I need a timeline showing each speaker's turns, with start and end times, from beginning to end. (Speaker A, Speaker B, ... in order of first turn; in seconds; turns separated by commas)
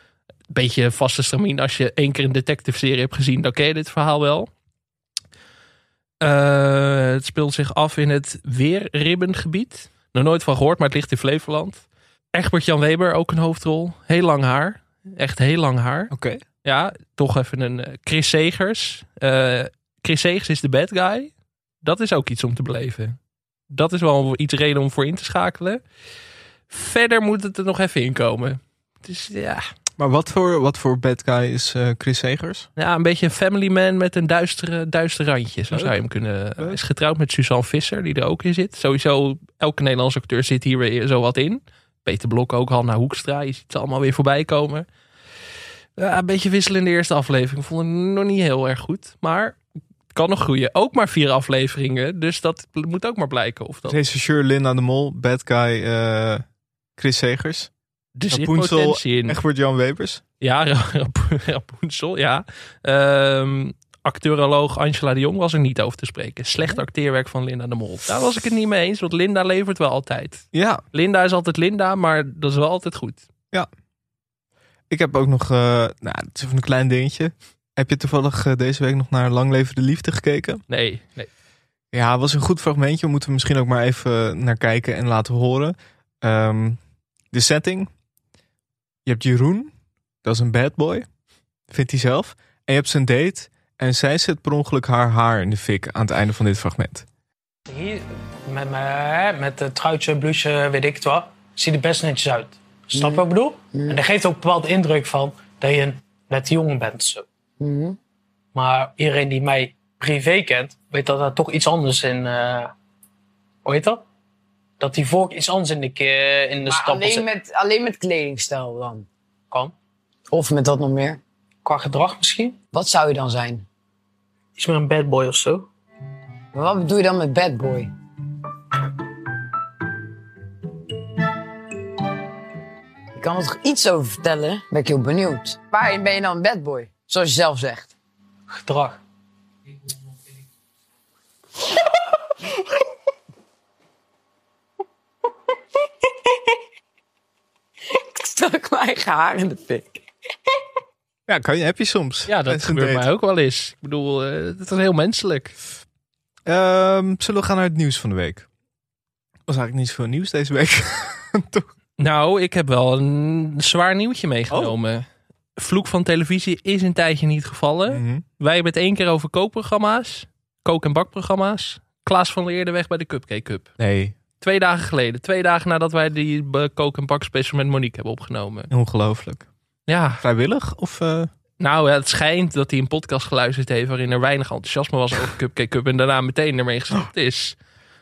Speaker A: 0.5-4.5, Speaker A: 6.2-16.1, Speaker B: 16.1-16.4, Speaker A: 16.6-21.3, Speaker A: 21.8-23.2, Speaker A: 23.7-25.8, Speaker A: 26.7-29.6, Speaker B: 30.0-32.7, Speaker A: 32.8-44.9, Speaker B: 35.7-36.0, Speaker A: 46.0-49.6, Speaker A: 50.1-54.0, Speaker B: 53.9-56.4, Speaker B: 57.0-57.7, Speaker A: 58.2-59.4, Speaker B: 58.3-60.2, Speaker A: 60.4-73.2, Speaker B: 70.5-70.8, Speaker B: 74.9-80.6, Speaker A: 80.7-81.3, Speaker B: 81.9-86.8, Speaker B: 87.3-87.9, Speaker B: 89.0-89.7, Speaker B: 90.2-91.1, Speaker B: 91.7-97.1, Speaker C: 97.7-107.3, Speaker D: 102.9-104.0, Speaker D: 107.6-108.0, Speaker C: 108.5-112.7, Speaker C: 113.7-114.0, Speaker C: 114.8-117.3, Speaker D: 116.7-119.1, Speaker D: 120.3-121.2, Speaker C: 121.7-122.6, Speaker D: 122.7-123.7, Speaker C: 124.6-125.7, Speaker D: 126.5-127.9, Speaker D: 133.2-137.9, Speaker C: 138.6-139.0, Speaker D: 147.9-150.0, Speaker B: 151.3-153.1, Speaker A: 152.3-155.6, Speaker B: 156.5-158.5, Speaker B: 159.5-161.7, Speaker A: 162.0-165.1, Speaker A: 165.6-173.7, Speaker B: 167.9-168.2, Speaker B: 173.8-174.2, Speaker A: 174.4-178.7, Speaker B: 178.7-179.5, Speaker A: 179.9-180.2, Speaker B: 180.2-181.3, Speaker A: 181.6-187.6